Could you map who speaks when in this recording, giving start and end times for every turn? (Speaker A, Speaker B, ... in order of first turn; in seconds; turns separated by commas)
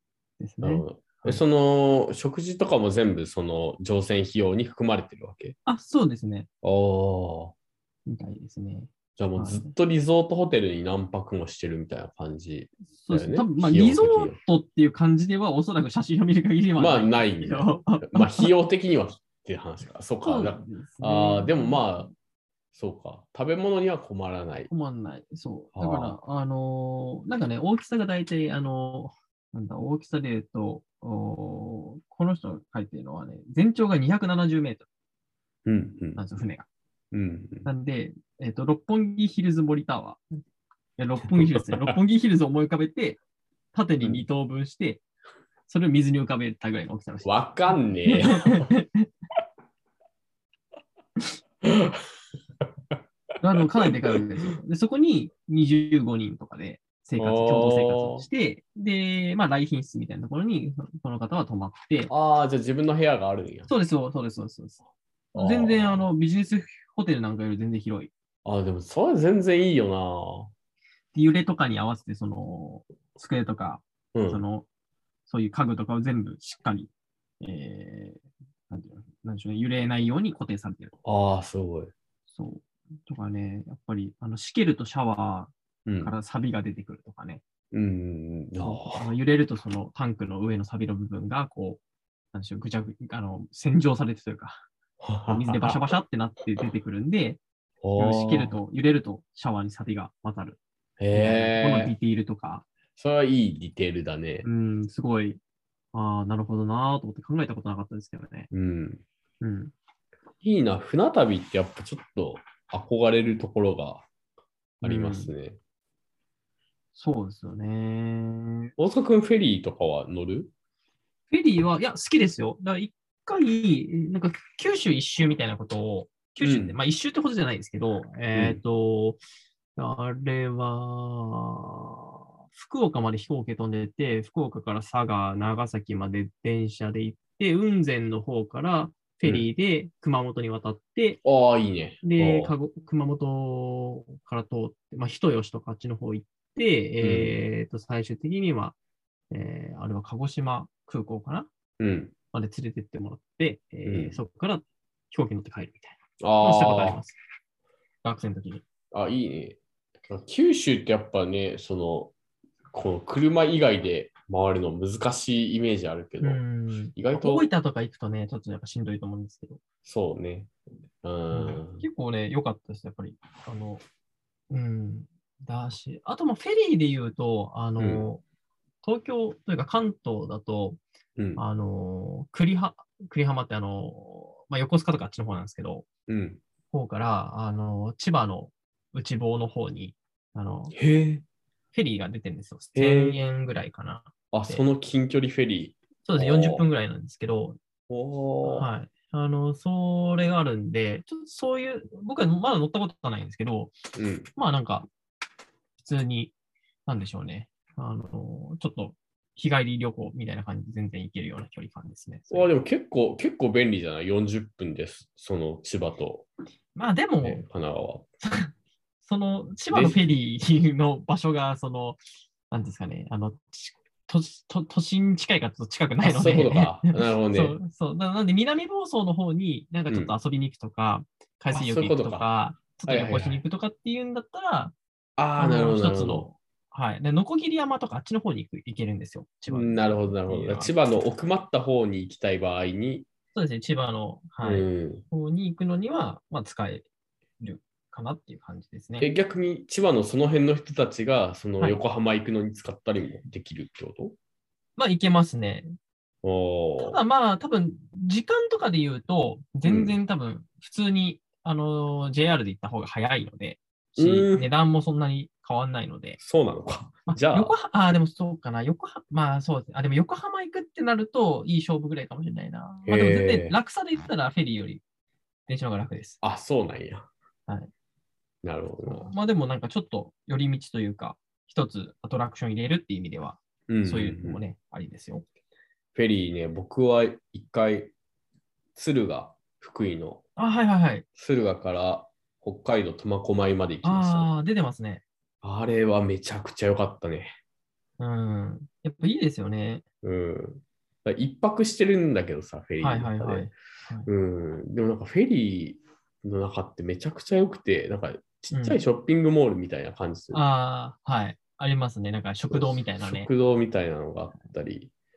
Speaker A: 0.4-1.4, Speaker B: 0.6-5.6, Speaker A: 5.7-6.5, Speaker B: 6.6-7.5, Speaker A: 8.1-9.7, Speaker B: 9.2-14.4, Speaker A: 13.0-18.5, Speaker B: 16.8-22.1, Speaker A: 20.2-22.1, Speaker B: 22.7-24.7, Speaker A: 24.7-34.9, Speaker B: 25.8-26.2, Speaker B: 35.7-36.2, Speaker A: 36.2-36.7, Speaker B: 37.1-37.7, Speaker A: 37.7-40.2, Speaker A: 41.0-43.2, Speaker B: 41.3-42.0, Speaker A: 43.7-45.0, Speaker A: 45.7-49.1, Speaker B: 47.2-48.7, Speaker B: 51.6-52.0, Speaker A: 53.4-62.1, Speaker B: 53.6-53.9, Speaker B: 57.2-58.3, Speaker B: 62.1-63.7, Speaker A: 63.7-64.8, Speaker B: 65.3-66.0, Speaker A: 65.3-68.1, Speaker B: 68.5-70.5, Speaker A: 71.1-74.7, Speaker B: 74.1-74.4, Speaker A: 75.3-80.9, Speaker B: 81.0-81.9, Speaker A: 82.3-87.4, Speaker B: 85.9-86.2, Speaker B: 87.7-89.1, Speaker A: 88.6-91.8, Speaker A: 92.3-94.7, Speaker B: 95.0-95.9, Speaker A: 95.3-97.4, Speaker B: 97.8-98.6, Speaker A: 98.0-100.6, Speaker B: 101.0-101.9, Speaker A: 101.1-102.7, Speaker B: 103.0-104.5, Speaker A: 104.4-105.4, Speaker A: 105.9-108.5, Speaker B: 108.5-109.0, Speaker A: 109.4-109.7, Speaker B: 110.4-114.1, Speaker A: 114.8-115.3, Speaker B: 114.8-115.6, Speaker A: 117.0-118.7, Speaker B: 118.8-120.5, Speaker A: 121.3-129.2, Speaker B: 126.4-126.8, Speaker B: 128.3-128.6, Speaker A: 129.8-132.0, Speaker A: 132.5-141.2, Speaker B: 141.2-142.6, Speaker A: 142.0-148.8, Speaker B: 147.0-147.4, Speaker A: 149.3-151.5, Speaker B: 151.8-152.1, Speaker A: 152.3-157.2, Speaker B: 153.9-154.2, Speaker B: 156.2-157.0, Speaker A: 158.0-158.7, Speaker B: 158.9-162.1, Speaker B: 162.7-166.4, Speaker A: 166.2-169.6, Speaker B: 167.0-167.5, Speaker B: 169.8-170.5, Speaker B: 171.0-171.8, Speaker A: 171.3-173.8, Speaker A: 174.5-178.2, Speaker B: 177.8-178.1, Speaker A: 178.8-180.8, Speaker B: 181.2-181.4, Speaker A: 181.4-185.9, Speaker B: 186.1-186.4, Speaker A: 186.7-190.7, Speaker B: 190.7-191.2, Speaker A: 191.7-194.6, Speaker B: 192.7-193.2, Speaker B: 194.3-196.7, Speaker A: 196.1-197.6, Speaker B: 197.9-198.7, Speaker A: 198.4-203.8, Speaker B: 204.0-204.3, Speaker A: 204.3-204.9, Speaker A: 205.8-206.3, Speaker A: 206.9-212.5, Speaker B: 212.3-216.3, Speaker A: 216.8-217.4, Speaker B: 217.2-218.1, Speaker A: 218.2-218.5, Speaker A: 219.0-234.7, Speaker B: 219.7-220.0, Speaker B: 226.0-227.6, Speaker B: 229.9-230.1, Speaker B: 231.5-232.3, Speaker B: 232.8-233.4, Speaker B: 235.2-236.3, Speaker A: 235.4-240.7, Speaker B: 239.5-243.1, Speaker A: 243.3-246.9, Speaker B: 244.4-245.0, Speaker A: 247.4-249.1, Speaker B: 249.0-254.2, Speaker A: 254.8-255.7, Speaker B: 256.2-257.0, Speaker A: 256.8-266.2, Speaker B: 259.6-259.9, Speaker B: 264.0-264.5, Speaker B: 266.2-267.6, Speaker A: 267.1-274.8, Speaker B: 272.9-273.6, Speaker A: 275.5-276.2, Speaker B: 276.2-277.1, Speaker B: 278.4-279.1, Speaker A: 278.8-285.2, Speaker B: 283.7-284.4, Speaker B: 285.9-287.9, Speaker B: 288.8-290.2, Speaker A: 290.4-291.1, Speaker B: 291.2-294.3, Speaker A: 293.8-295.0, Speaker B: 295.4-297.3, Speaker A: 298.0-299.8, Speaker B: 300.0-303.5, Speaker A: 302.8-304.1, Speaker B: 304.1-310.4, Speaker A: 308.5-308.8, Speaker A: 310.3-313.3, Speaker B: 312.5-314.9